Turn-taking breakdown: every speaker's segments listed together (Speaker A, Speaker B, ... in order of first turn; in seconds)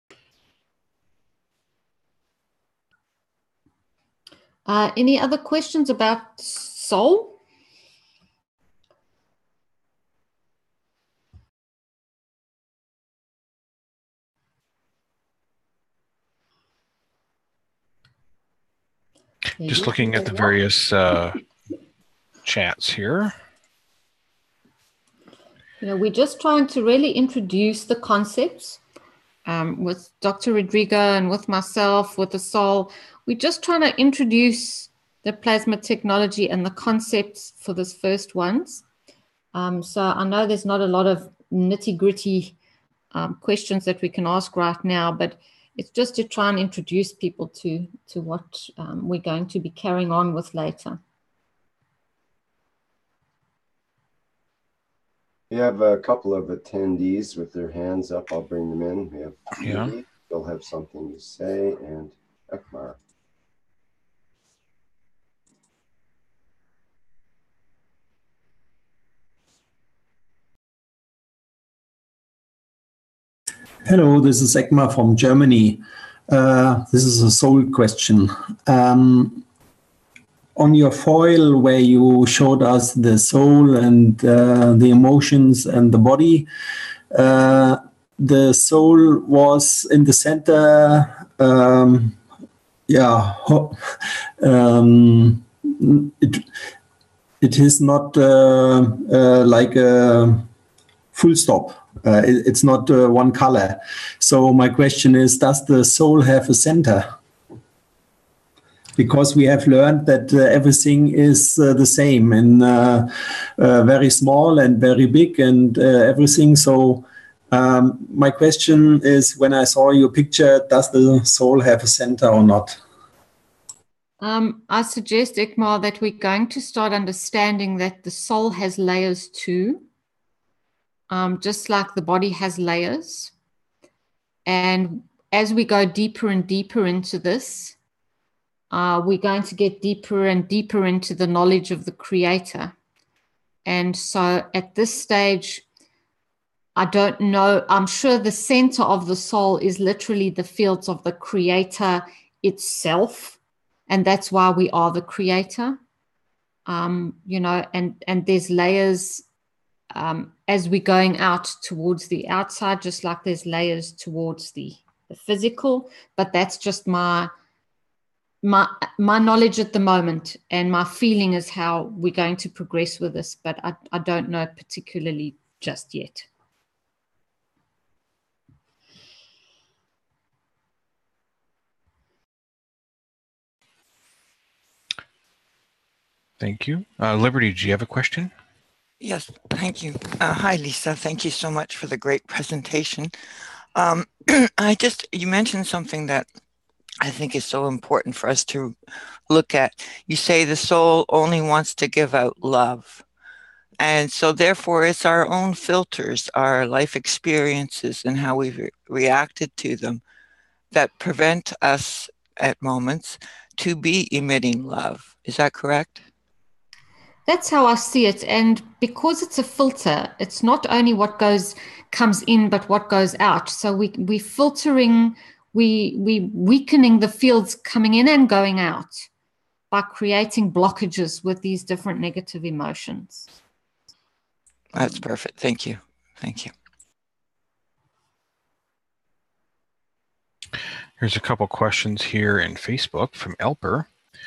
Speaker A: 4.7-7.4, 19.6-20.5, 25.8-28.8, 29.4-38.8, 39.5-42.6, 43.1-51.0, 124.2-129.8, 131.1-133.3, 134.4-137.8, 138.7-142.7, 143.7-145.6, 146.8-155.8, 156.7-159.2, 159.9-167.3, 168.4-176.3, 217.3-229.1, 229.7-233.3
Speaker B: 19.6-21.4, 22.4-23.3, 59.6-59.9, 186.4-188.3, 241.0-243.9
Speaker C: 55.5-63.0
Speaker D: 73.8-79.5, 80.6-86.5, 87.1-92.2, 92.9-93.8, 94.4-96.5, 97.4-100.5, 101.1-107.1, 109.0-122.8
Speaker E: 189.0-193.1, 193.7-196.3, 197.0-198.8, 199.3-203.0, 203.8-210.0, 210.7-216.0, 234.7-236.5